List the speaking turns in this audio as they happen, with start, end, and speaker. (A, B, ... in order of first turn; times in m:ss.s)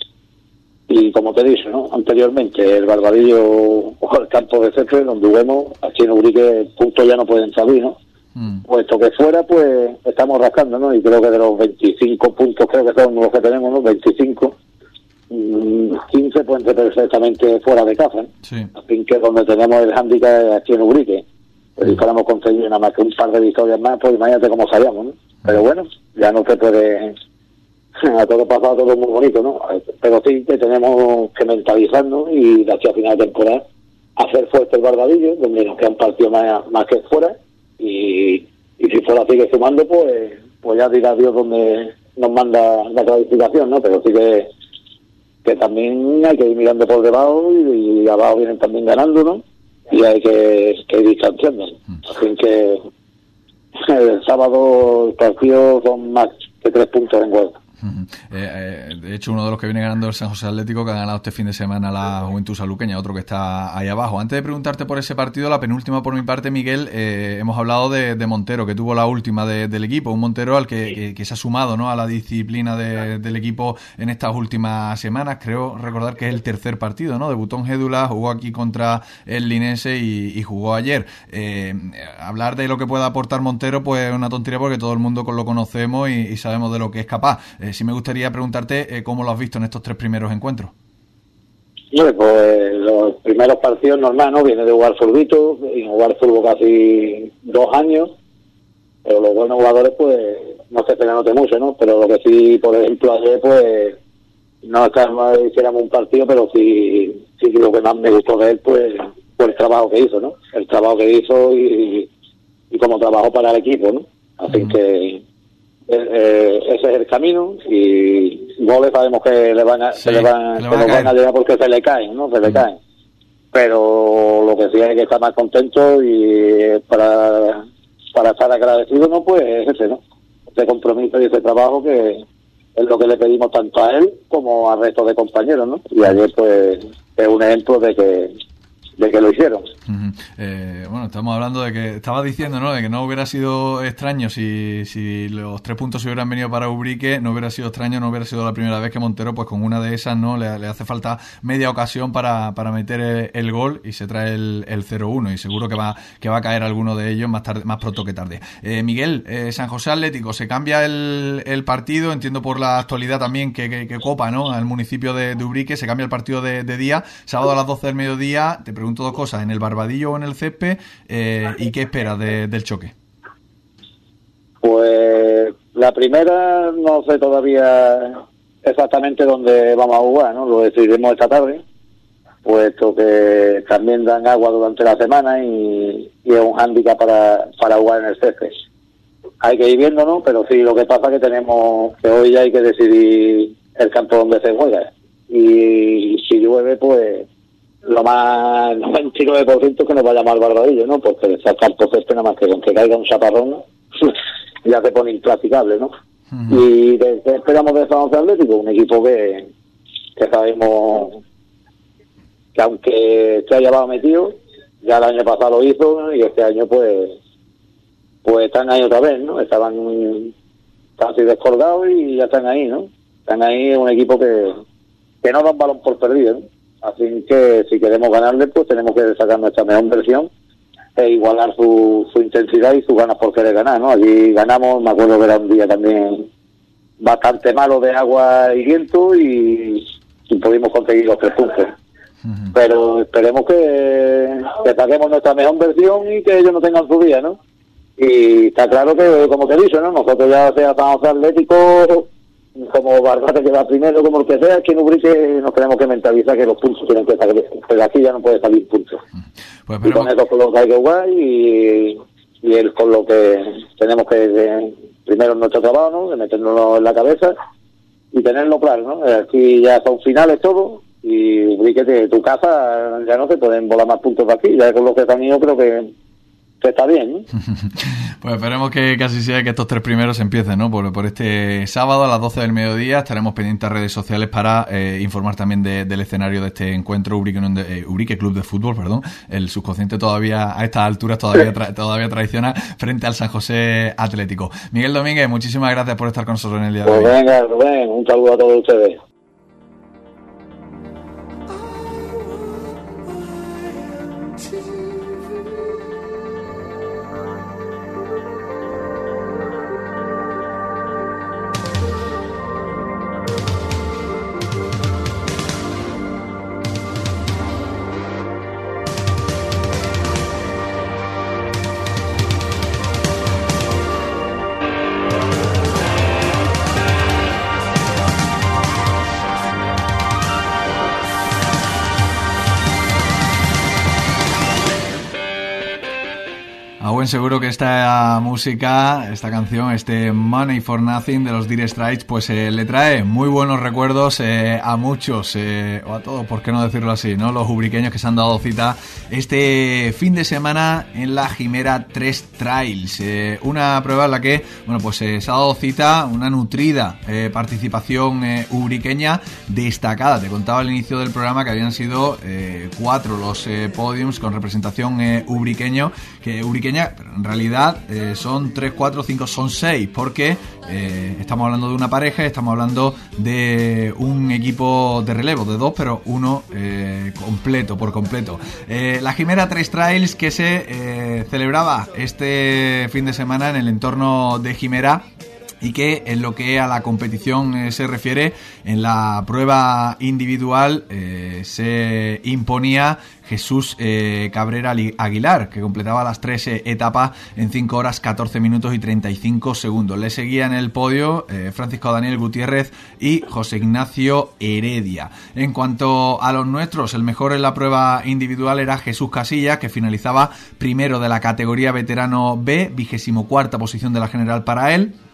0:00.9-0:08.0 A
0:08.4-0:08.6 B
0:08.6-0:14.6 A
0:15.3-0:21.2 A
0:18.4-0:18.7 B
0:21.8-0:27.2 A
0:28.0-0:33.6 A
0:34.2-0:44.5 A
0:45.4-0:52.8 A
0:53.8-0:57.6 A
0:57.8-1:30.7 B
1:31.9-1:38.1 A
1:39.0-1:44.0 A
1:44.6-1:52.1 A
1:52.7-1:55.2 A
1:55.9-2:02.8 A
2:00.0-2:01.1 B
2:03.5-2:10.0 A
2:10.5-2:12.2 A
2:12.8-2:18.4 A
2:19.0-2:19.7 A
2:19.9-2:52.9 B
2:54.6-3:01.6 A
3:02.4-3:08.6 A
3:09.4-3:17.3 A
3:17.8-3:25.9 A
3:26.3-3:26.6 B
3:26.5-3:29.5 A
3:30.2-3:31.2 A
3:32.6-3:37.2 A
3:38.2-3:40.3 A
3:41.0-3:44.6 A
3:45.2-3:50.3 A
3:51.0-3:56.3 A
3:57.0-4:01.7 A
4:02.3-4:02.5 B
4:02.5-4:07.4 A
4:08.0-4:19.0 A
4:19.7-4:20.1 B
4:19.8-4:27.4 A
4:28.1-4:35.9 A
4:36.6-4:37.3 A
4:37.4-4:57.1 B
4:56.8-4:59.0 A
5:36.8-6:25.1 B
6:25.6-6:55.0 B